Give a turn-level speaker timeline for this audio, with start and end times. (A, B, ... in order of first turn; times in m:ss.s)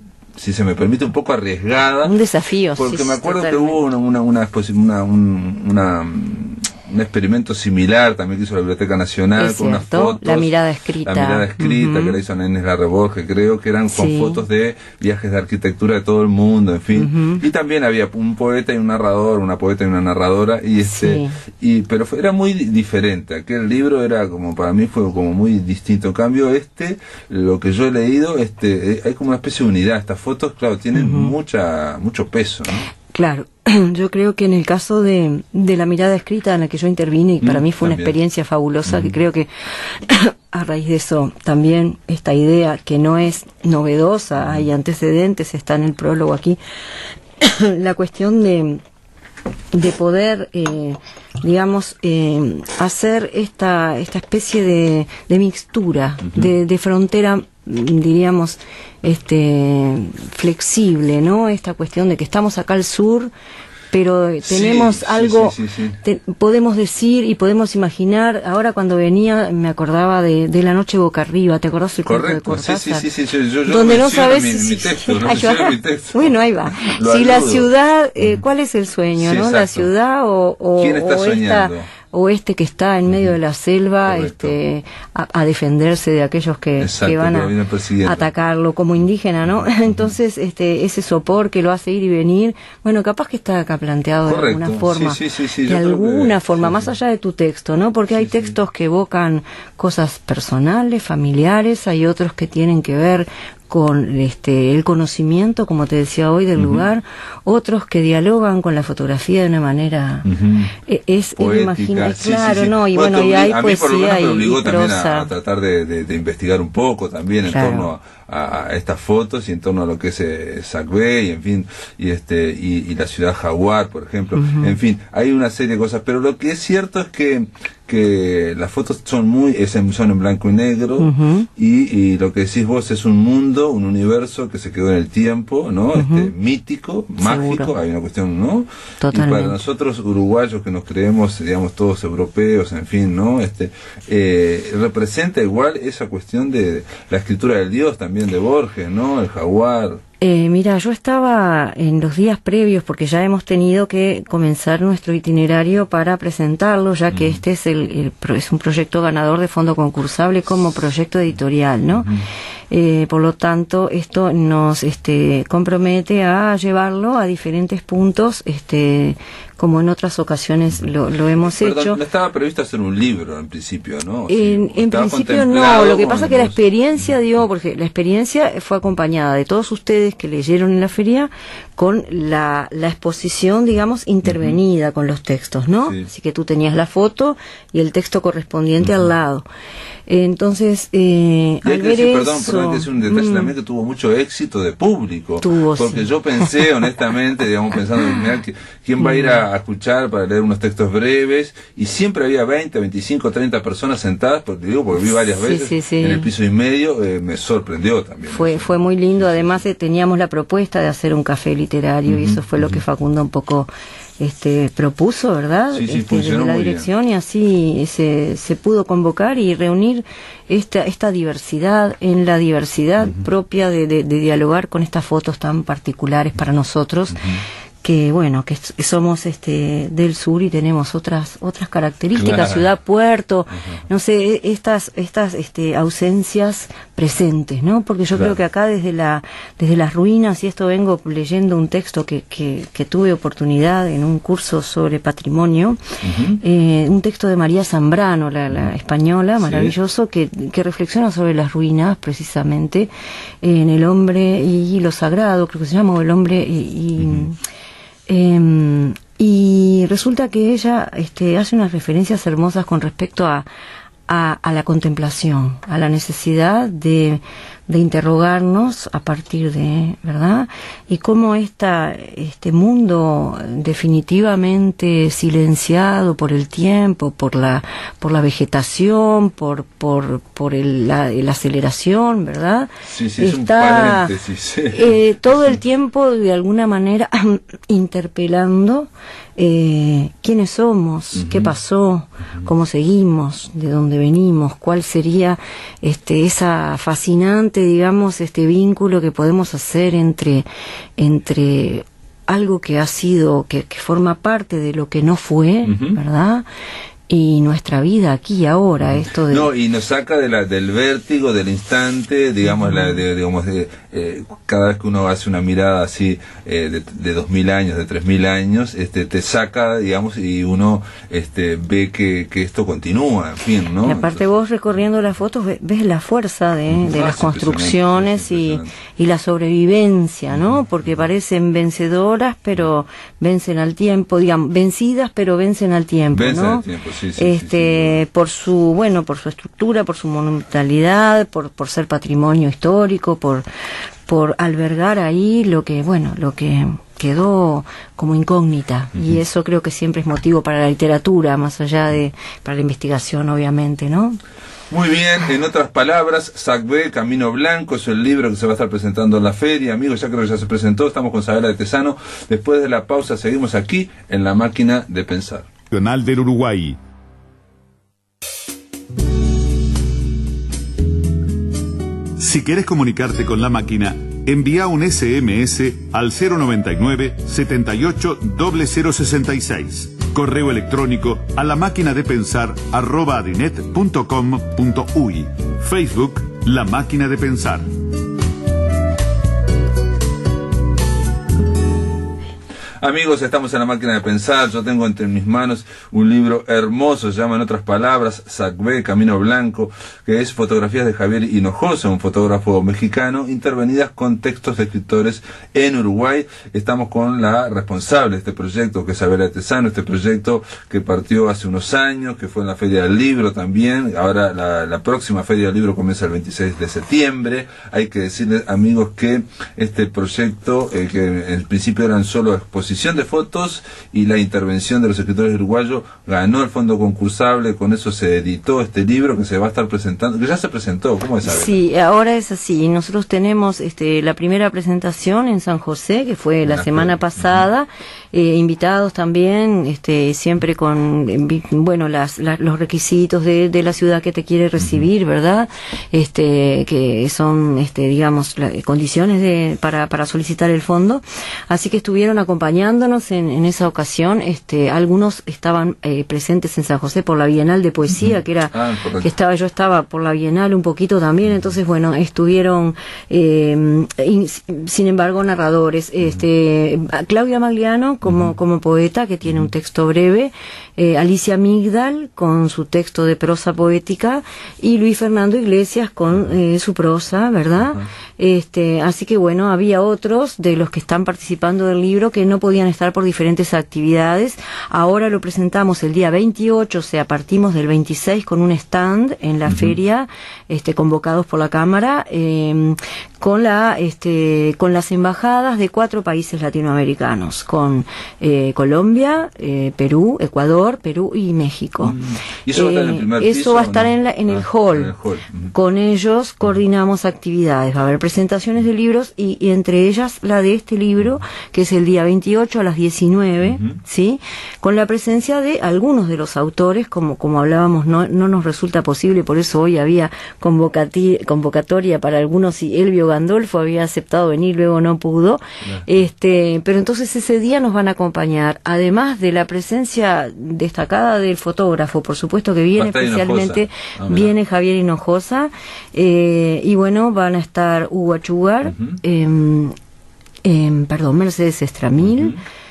0:00.4-0:02.1 A
0:02.0-0:03.8 B
0:02.7-0:10.5 A
0:09.4-0:12.2 B
0:11.0-0:32.8 A
0:13.9-0:14.4 B
0:16.9-0:17.4 B
0:20.8-0:21.3 B
0:30.9-0:31.3 B
0:33.1-0:46.6 B
0:37.4-0:38.1 A
0:38.8-0:39.1 A
0:44.4-0:44.6 A
0:47.4-0:48.8 B
0:49.7-1:03.3 B
1:03.9-1:13.1 B
1:04.4-1:06.0 A
1:12.0-1:17.7 A
1:13.6-1:50.3 B
1:19.2-1:19.9 A
1:20.8-1:21.9 A
1:24.0-1:24.5 A
1:26.8-1:28.3 A
1:34.2-1:36.9 A
1:46.6-1:46.8 A
1:50.2-1:50.7 A
1:50.8-1:55.3 B
1:51.4-2:30.0 A
1:57.5-1:57.9 B
2:04.4-2:04.7 B
2:11.0-2:11.5 B
2:15.9-2:16.3 B
2:17.2-2:17.7 B
2:19.0-2:19.6 B
2:30.2-2:42.1 B
2:37.1-2:37.4 A
2:42.0-2:42.2 A
2:42.7-2:52.0 B
2:51.4-2:56.6 A
2:54.3-3:09.4 B
3:04.2-3:04.6 A
3:05.8-3:06.1 A
3:10.1-3:13.5 B
3:11.6-3:29.6 A
3:15.4-3:16.4 B
3:19.0-3:19.4 B
3:25.0-3:26.3 B
3:28.3-3:47.2 B
3:32.0-3:32.8 A
3:35.7-3:36.9 A
3:47.1-3:47.4 A
3:47.8-4:05.8 B
3:52.1-3:52.7 A
3:53.6-3:53.8 A
4:06.0-4:06.4 A
4:06.4-4:12.9 B
4:09.4-4:09.7 A
4:13.4-4:17.4 B
4:17.0-4:17.2 A
4:18.1-4:23.4 B
4:24.1-4:44.1 B
4:42.8-4:44.9 A
4:44.7-5:00.4 B
4:51.1-4:51.5 A
5:01.0-5:06.4 B
5:05.6-5:06.0 A
5:07.1-5:09.5 B
5:08.8-5:24.2 A
5:12.6-5:12.9 B
5:23.8-5:36.6 B
5:26.7-5:28.7 A
5:36.1-5:38.0 A
5:37.2-5:43.4 B
5:44.1-5:54.2 B
5:54.7-6:05.5 A
6:05.7-6:06.8 C
6:12.2-6:27.7 C
6:32.8-7:11.6 A
7:11.2-8:22.0 B
7:16.4-7:17.4 A
7:38.0-7:39.1 A
8:09.5-8:09.8 A
8:21.8-8:25.5 A
8:22.5-8:24.9 B
8:25.5-8:59.7 B
8:33.5-8:33.8 A
8:52.8-8:54.3 A
8:58.7-8:59.0 A
9:00.4-9:02.4 B
9:02.0-9:02.4 A